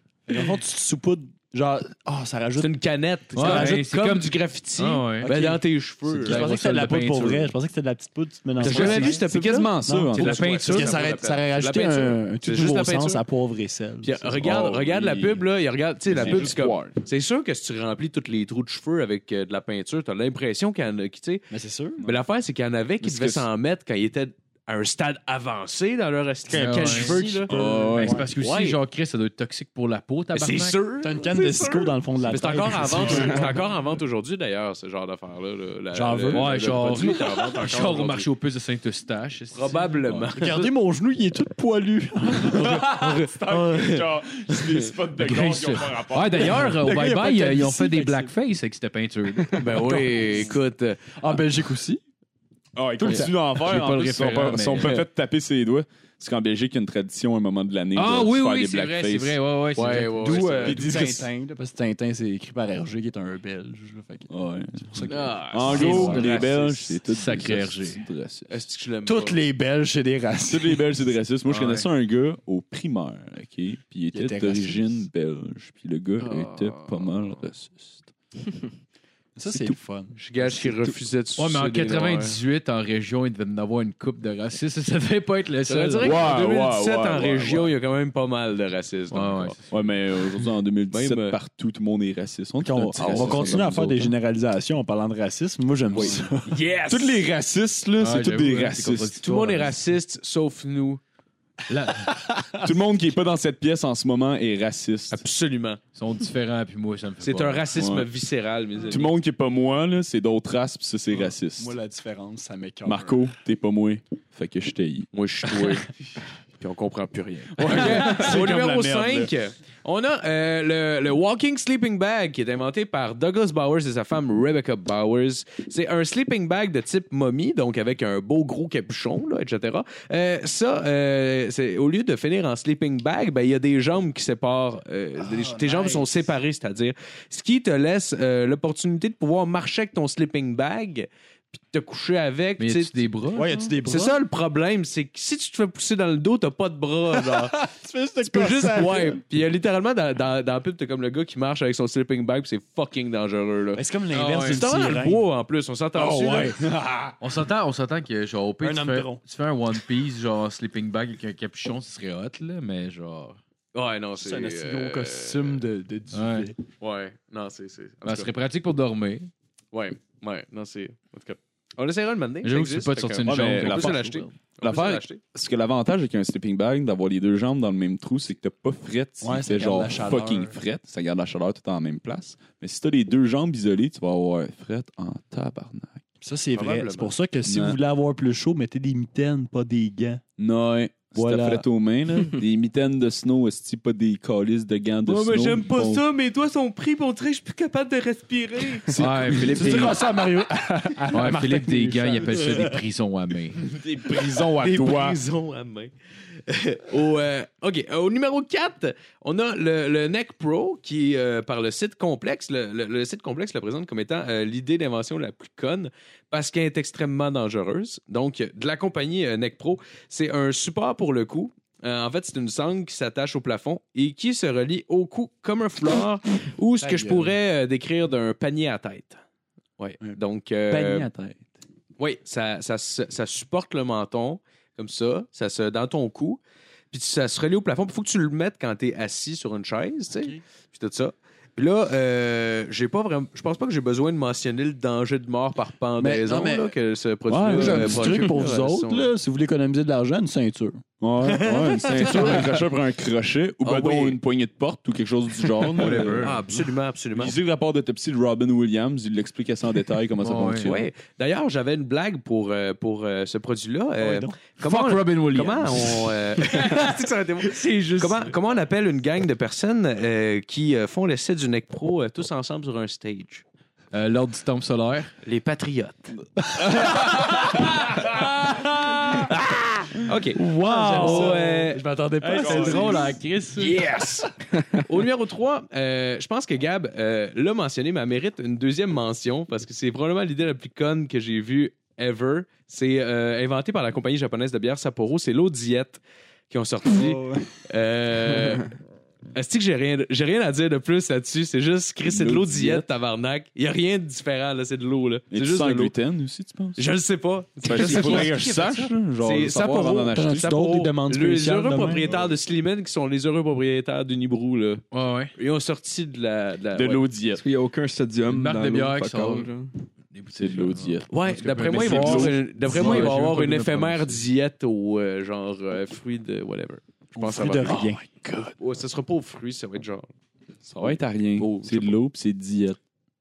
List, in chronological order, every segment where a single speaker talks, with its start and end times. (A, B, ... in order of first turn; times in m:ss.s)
0:00.3-0:02.7 A
0:02.6-0:06.5 B
0:03.4-0:05.3 C
0:03.4-0:03.8 D
0:05.2-0:09.2 A
0:06.2-0:07.5 C
0:08.6-0:13.2 B
0:08.6-0:10.7 D
0:09.9-0:14.4 A
0:10.2-0:11.0 C
0:14.0-0:21.4 B
0:14.4-0:15.4 D
0:16.1-0:17.0 D
0:21.5-0:22.1 A
0:22.0-0:27.5 B
0:23.0-0:23.5 D
0:26.5-0:28.3 A
0:26.5-0:27.2 C
0:27.5-0:28.2 D
0:28.0-0:30.8 C
0:28.3-0:28.8 B
0:30.3-0:38.3 B
0:31.0-0:33.6 A
0:35.9-0:37.8 A
0:36.3-0:40.3 C
0:39.6-0:40.7 B
0:40.3-0:43.2 A
0:42.4-0:46.8 D
0:42.5-0:44.9 B
0:45.2-0:50.0 C
0:46.4-0:47.1 B
0:46.4-0:48.3 A
0:49.6-0:51.2 B
0:49.6-0:50.6 A
0:51.2-0:52.0 A
0:52.8-0:59.4 D
0:53.0-0:53.3 A
0:53.0-0:55.0 C
0:54.8-0:55.0 B
0:58.0-1:00.4 C
0:59.8-1:00.9 B
1:00.1-1:06.4 A
1:00.4-1:01.3 D
1:04.3-1:08.5 D
1:05.1-1:07.0 B
1:05.3-1:08.0 C
1:08.5-1:09.4 B
1:09.0-1:10.9 A
1:10.5-1:18.1 D
1:11.5-1:11.9 C
1:14.1-1:15.0 A
1:16.2-1:17.1 B
1:19.4-1:21.0 A
1:20.2-1:22.4 B
1:21.4-1:26.3 C
1:25.7-1:29.6 B
1:26.0-1:27.7 D
1:29.1-1:29.7 C
1:29.7-1:34.1 D
1:30.9-1:31.4 B
1:32.6-1:36.5 A
1:33.0-1:33.6 B
1:35.9-1:37.2 B
1:36.9-1:39.2 D
1:38.0-1:39.8 C
1:39.2-1:41.0 B
1:41.7-1:42.1 C
1:42.1-1:42.6 A
1:42.6-1:45.2 D
1:45.1-1:45.8 B
1:46.0-1:47.7 C
1:47.2-1:49.2 B
1:47.7-1:48.1 D
1:48.9-1:51.7 D
1:51.2-1:53.2 A
1:52.8-1:55.1 D
1:55.1-1:55.9 B
1:56.6-2:27.7 B
1:57.6-1:59.3 D
1:57.8-1:58.2 A
2:15.2-2:16.2 A
2:22.6-2:23.6 C
2:23.4-2:24.2 A
2:27.2-2:29.2 A
2:28.2-2:36.6 B
2:33.7-2:35.2 A
2:34.1-2:34.6 C
2:36.0-2:37.1 A
2:37.2-2:43.4 C
2:38.6-2:39.2 A
2:43.7-2:45.6 B
2:44.2-2:46.6 A
2:46.1-2:46.5 C
2:46.8-2:48.3 B
2:48.0-2:49.3 C
2:49.7-2:55.2 B
2:52.4-2:54.3 C
2:53.2-2:54.1 D
2:54.6-3:06.0 D
2:59.2-3:00.6 A
3:06.2-3:10.2 A
3:06.5-3:07.1 B
3:07.4-3:07.8 D
3:10.4-3:16.0 D
3:11.2-3:11.6 A
3:15.0-3:20.0 B
3:18.9-3:19.9 D
3:18.9-3:20.0 C
3:19.4-3:22.8 A
3:21.1-3:23.6 C
3:23.6-3:25.2 D
3:24.1-3:25.9 B
3:26.5-3:49.2 B
3:46.8-3:47.4 A
3:49.8-3:51.1 B
3:50.7-3:51.5 D
3:52.0-3:56.4 B
3:56.9-4:09.1 B
4:06.0-4:06.7 A
4:07.3-4:08.4 D
4:07.5-4:10.8 A
4:11.0-4:16.3 D
4:11.2-4:12.6 B
4:13.6-4:14.2 B
4:15.8-4:17.4 B
4:15.8-4:16.5 C
4:17.2-4:20.9 D
4:20.2-4:20.7 C
4:20.6-4:33.4 B
4:24.0-4:24.4 A
4:24.6-4:26.9 C
4:27.5-4:28.2 C
4:33.9-4:35.1 C
4:35.2-4:41.8 B
4:40.4-4:43.2 A
4:41.0-4:41.3 C
4:42.2-4:43.1 D
4:42.3-4:43.8 C
4:43.6-4:58.8 B
4:59.3-5:06.0 B
5:02.1-5:02.9 D
5:05.3-5:06.8 D
5:06.8-5:17.0 B
5:07.6-5:10.5 D
5:07.7-5:08.9 C
5:10.1-5:12.1 A
5:14.9-5:15.3 C
5:16.8-5:17.4 D
5:17.4-5:19.7 E
5:18.3-5:19.5 C
5:20.1-5:24.2 C
5:20.4-5:22.9 D
5:21.1-5:27.9 B
5:22.7-5:23.2 A
5:27.2-5:28.0 A
5:27.7-5:28.5 D
5:28.6-5:30.1 B
5:30.7-5:32.8 D
5:30.8-5:32.0 B